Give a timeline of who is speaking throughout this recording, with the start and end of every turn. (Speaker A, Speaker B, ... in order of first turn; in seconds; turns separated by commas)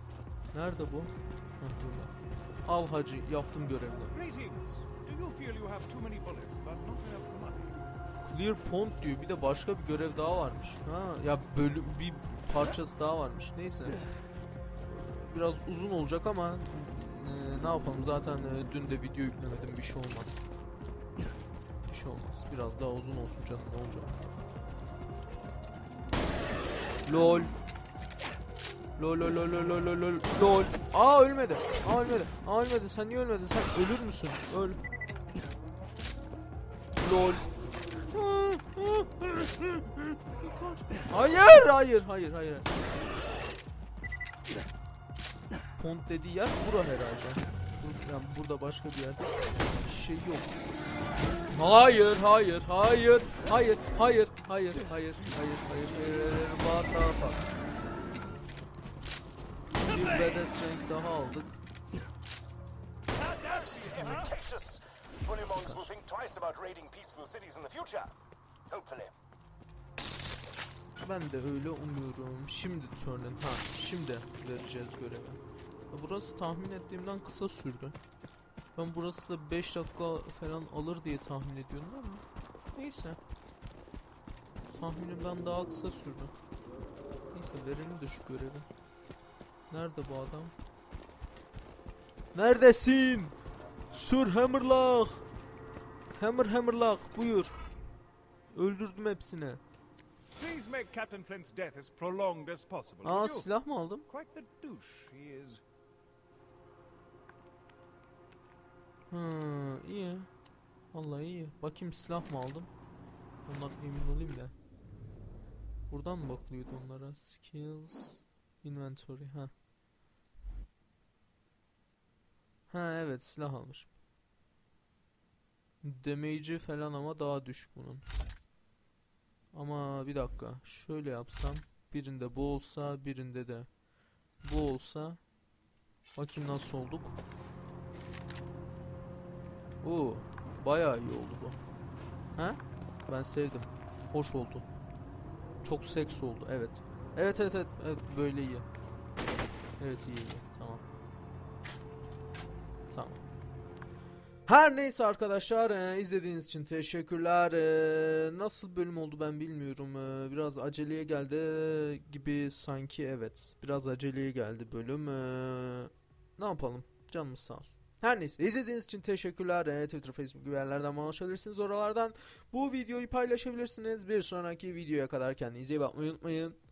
Speaker A: 0.5-2.1, Speaker A: 2.6-4.1, Speaker B: 4.1-7.8, Speaker A: 8.2-14.0, Speaker A: 14.8-20.4, Speaker A: 21.9-24.1, Speaker A: 27.1-27.5, Speaker A: 29.0-34.8, Speaker A: 37.0-37.4, Speaker A: 38.1-42.7, Speaker A: 45.8-50.5, Speaker A: 51.5-57.4, Speaker A: 59.8-61.6, Speaker B: 63.1-64.3, Speaker C: 63.5-68.1, Speaker A: 63.9-64.3, Speaker A: 65.3-65.9, Speaker C: 68.7-69.1, Speaker A: 71.0-75.4, Speaker A: 75.9-78.0, Speaker A: 78.8-83.2, Speaker A: 84.7-86.3, Speaker A: 87.3-88.7, Speaker A: 89.7-90.5, Speaker A: 92.3-93.3, Speaker A: 93.9-95.2, Speaker A: 96.2-97.5, Speaker A: 98.5-99.6, Speaker B: 100.3-103.5, Speaker A: 103.0-104.0, Speaker B: 104.1-105.6, Speaker A: 109.1-110.3, Speaker A: 110.9-112.7, Speaker A: 113.5-114.5, Speaker A: 115.9-119.5, Speaker A: 122.7-123.9, Speaker A: 125.8-128.0, Speaker A: 129.5-133.7, Speaker A: 134.4-135.2, Speaker A: 136.2-137.2, Speaker A: 139.8-141.6, Speaker A: 142.3-144.7, Speaker A: 145.6-148.7, Speaker A: 149.8-150.8, Speaker A: 152.9-153.2, Speaker A: 154.5-176.6